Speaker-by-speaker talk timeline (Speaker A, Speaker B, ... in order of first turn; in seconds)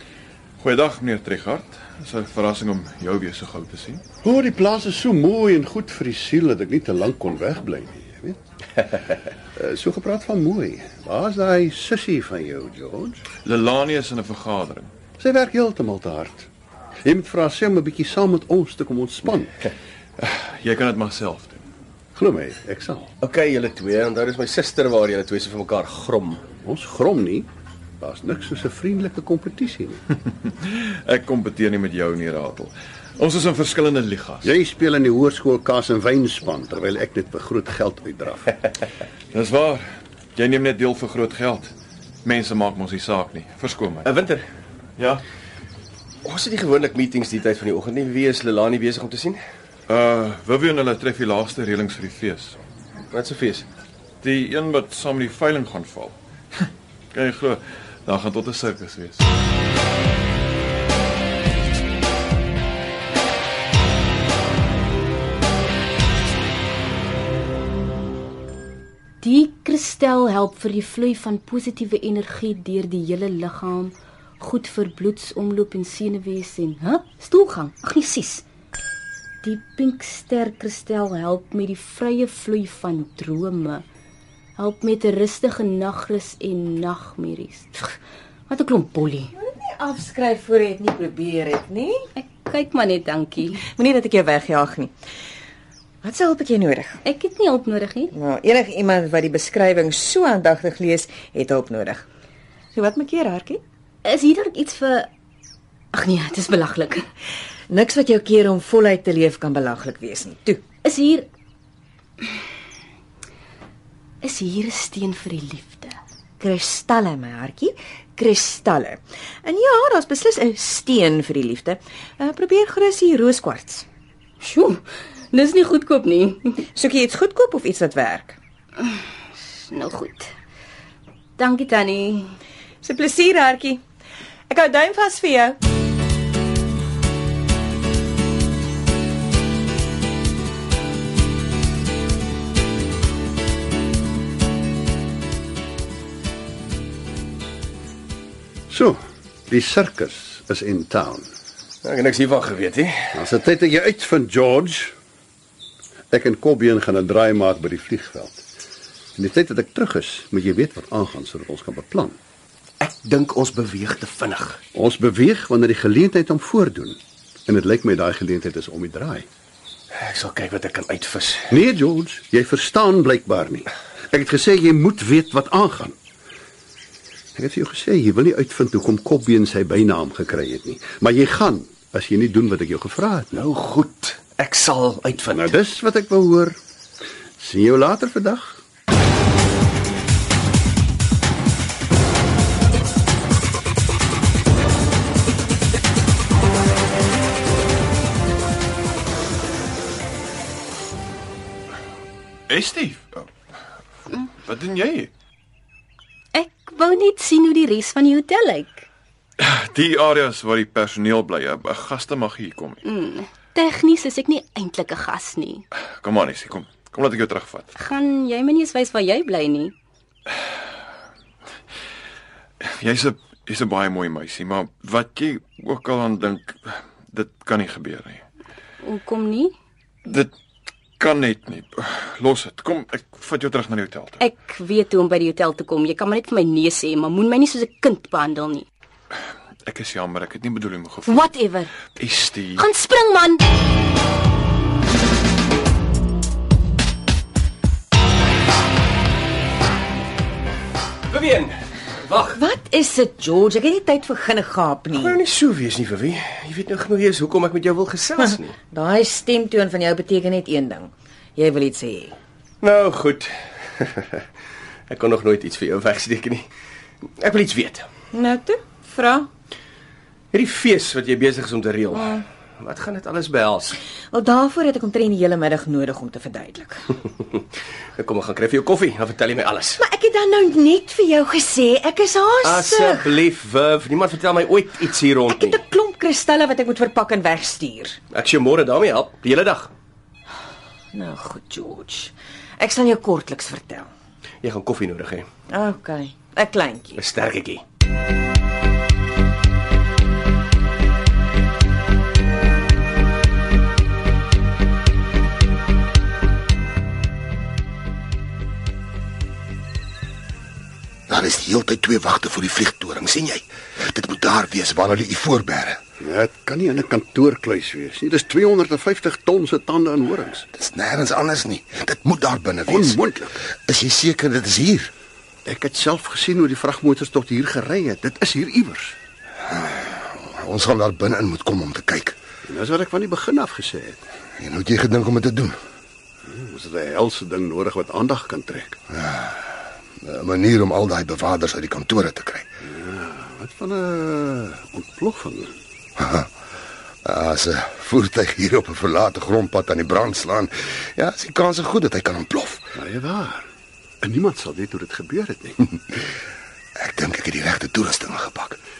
Speaker A: 0.6-4.0, 13.4-14.9, 20.2-21.6, 30.7-34.5, 39.3-41.7, 42.2-44.1, 45.0-45.2, 49.9-52.6, 54.2-56.2, 57.1-59.2, 202.5-203.3, 204.4-205.1, 209.4-212.8, 216.0-217.7, 222.6-228.2, 230.1-230.3, 231.0-234.2, 239.7-241.2, 241.9-242.6
Speaker B: 4.2-9.0, 9.6-13.2, 15.2-16.5, 17.1-19.6, 22.2-23.1, 26.6-27.5, 28.0-30.0, 34.4-38.6, 148.7-151.3, 153.1-154.9, 156.1-158.4, 159.2-162.2, 164.7-169.3, 171.5-176.0, 177.4-183.4, 185.2-186.6, 187.4-188.6, 316.0-320.5, 322.6-323.4, 325.5-329.0, 332.5-334.0, 336.3-338.8, 342.6-345.5, 352.8-353.5, 354.0-355.6
Speaker C: 23.2-26.4, 44.0-44.5, 46.2-49.4, 53.1-53.7, 151.8-152.9, 162.8-164.6, 170.0-171.4, 183.4-185.3, 251.1-252.4, 254.9-258.6, 262.6-264.2, 264.9-266.4, 267.2-267.9, 270.3-273.8, 278.0-279.8, 282.4-285.6, 288.1-289.7, 294.4-295.3, 297.0-297.6
Speaker D: 69.2-78.4, 79.4-83.8, 84.6-87.9, 88.5-89.3, 92.2-93.6, 97.0-98.1, 104.0-105.1, 105.9-107.0, 110.8-111.3, 114.2-115.9, 124.4-126.6, 129.6-130.3, 131.4-132.3, 206.3-208.8, 212.8-215.6, 217.8-219.7, 228.8-229.5, 234.2-238.7, 241.1-241.7, 242.6-243.4
Speaker E: 89.4-92.1, 93.7-94.9, 96.0-97.0, 98.1-102.0, 102.8-103.6, 107.7-110.6, 116.4-123.9, 126.8-128.4, 132.8-133.8, 134.5-135.6, 252.3-255.2, 258.2-262.2, 268.1-269.3, 271.9-272.2, 274.1-277.0, 279.8-283.2, 285.3-288.0, 290.9-293.9, 295.5-297.0
Speaker F: 311.1-315.8, 320.6-322.9, 323.6-324.9, 329.5-332.2, 334.4-335.6, 338.9-339.3, 340.0-342.5, 346.0-346.3, 347.1-352.7, 356.8-358.6